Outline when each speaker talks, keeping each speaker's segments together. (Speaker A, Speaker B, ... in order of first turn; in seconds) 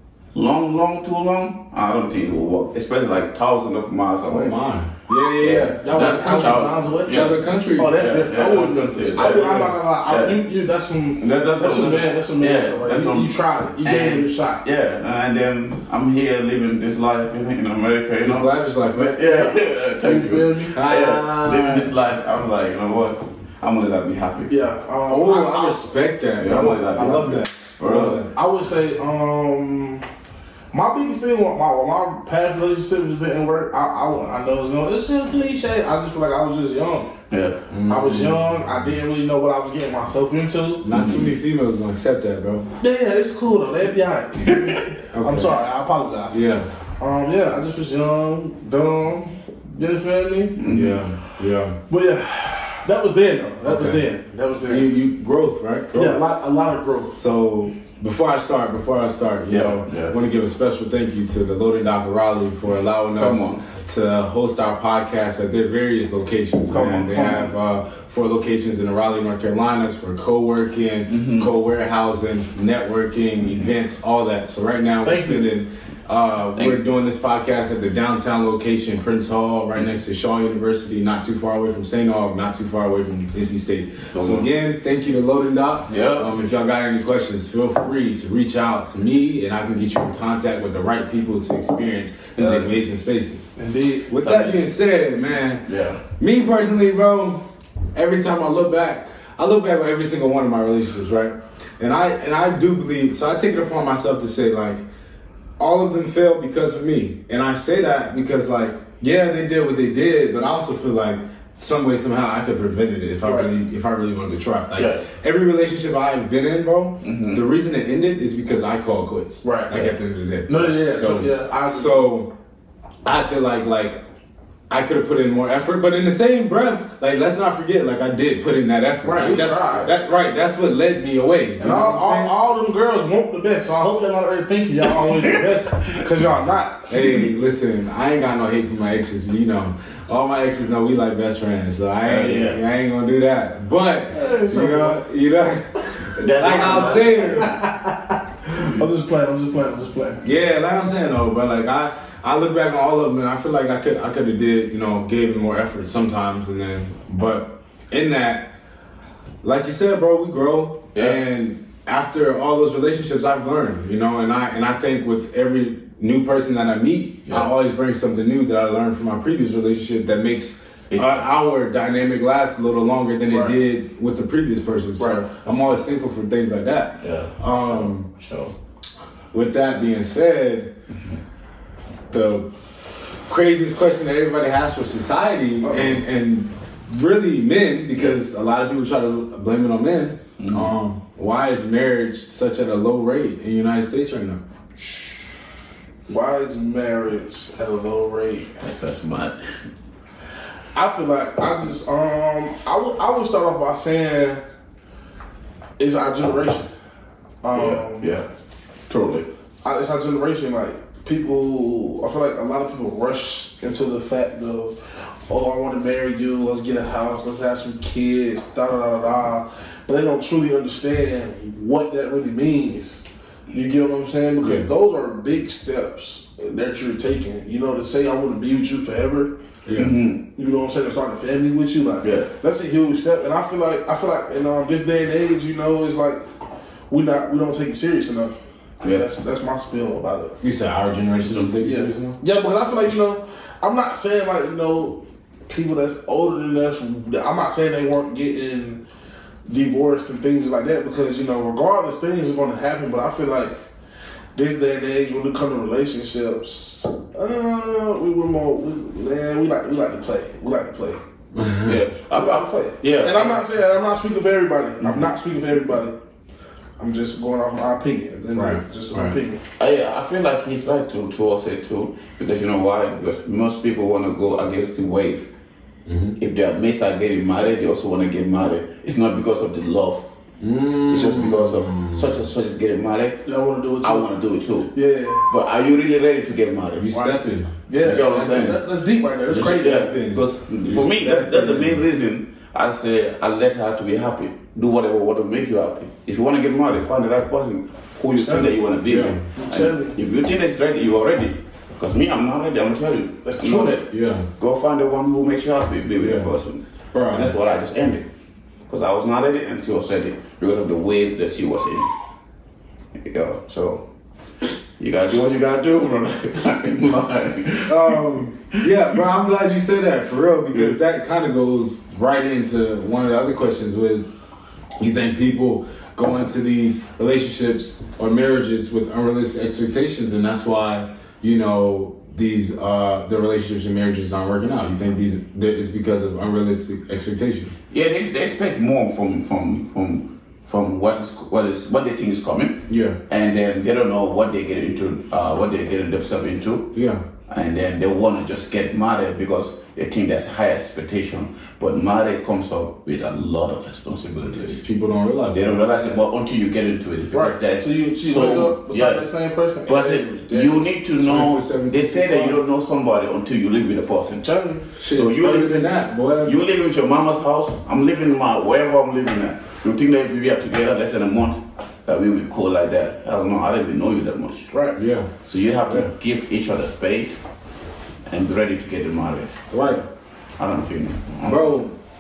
Speaker A: 0.3-4.6, 5.4-10.4, 11.2-24.6, 26.4-28.2, 37.3-37.6, 40.9-41.3, 44.5-44.8, 50.6-51.0, 59.5-60.1, 63.2-63.6, 66.7-67.1, 71.1-71.5, 84.1-84.5, 85.9-86.3, 92.4-92.7, 94.2-94.6, 95.7-96.0, 114.8-115.1, 117.0-117.4, 135.0-136.0, 142.0-142.6, 146.2-147.5, 160.9-161.2, 170.9-171.3, 177.0-178.5, 180.9-181.2, 190.4-190.7, 198.6-199.4, 207.5-208.3, 208.9-209.3, 229.7-230.2, 232.0-232.3, 238.8-239.1, 261.6-263.4, 269.6-275.3, 276.2-280.1, 280.9-283.2, 283.8-284.7, 285.2-286.9, 287.8-288.6, 289.3-303.9, 304.4-308.1, 308.7-311.9, 313.0-313.8, 314.8-318.0, 337.7-346.7, 347.3-354.6, 355.3-359.1, 359.6-364.3, 364.9-365.7, 366.2-374.5, 375.2-377.2, 378.1-379.7, 380.4-381.6
Speaker B: 4.3-8.1, 9.2-9.8, 18.2-19.2, 20.7-21.9, 25.1-28.3, 37.7-38.5, 40.8-42.7, 45.1-45.6, 46.3-46.7, 50.7-51.8, 53.6-54.0, 54.7-56.2, 57.1-93.5, 94.1-95.7, 96.2-97.4, 98.0-104.8, 105.6-122.3, 123.0-124.0, 124.7-132.3, 136.9-147.6, 150.2-158.5, 159.4-178.1, 179.3-180.7, 182.1-182.5, 183.3-194.4, 224.4-224.7, 229.7-229.9, 240.4-242.2, 261.3-261.8, 268.3-269.2, 275.9-276.2, 280.4-282.1, 286.8-288.5, 289.3-290.8, 298.9-299.2, 303.9-304.3, 306.0-306.3, 306.9-307.3, 317.6-324.1, 324.8-337.6, 342.7-343.0, 346.7-347.0, 354.3-356.0, 361.0-362.4, 364.8-366.4, 374.8-375.1, 379.5-379.9, 381.2-381.7
Speaker C: 5.8-14.6, 19.1-20.8, 24.5-25.8, 28.2-30.1, 30.7-37.1, 37.9-40.9, 42.8-46.4, 47.0-50.7, 51.9-54.9, 55.9-57.1, 66.7-67.5, 75.0-75.4, 93.6-94.1, 113.2-113.5, 119.4-119.9, 120.5-122.1, 129.0-129.9, 131.6-137.2, 144.1-145.0, 147.4-150.2, 173.3-173.6, 175.0-175.2, 185.6-186.0, 194.8-195.2, 196.1-198.6, 200.8-204.4, 205.8-206.7, 207.4-208.1, 209.6-229.3, 230.3-236.2, 236.9-240.3, 241.6-248.8, 249.5-253.6, 254.3-261.0, 262.1-265.9, 266.8-269.4, 283.2-284.1, 284.7-285.3, 287.7-290.0, 290.7-291.7, 298.2-298.6, 299.4-300.0, 303.2-303.8, 357.1-360.6, 364.2-364.7, 374.5-374.8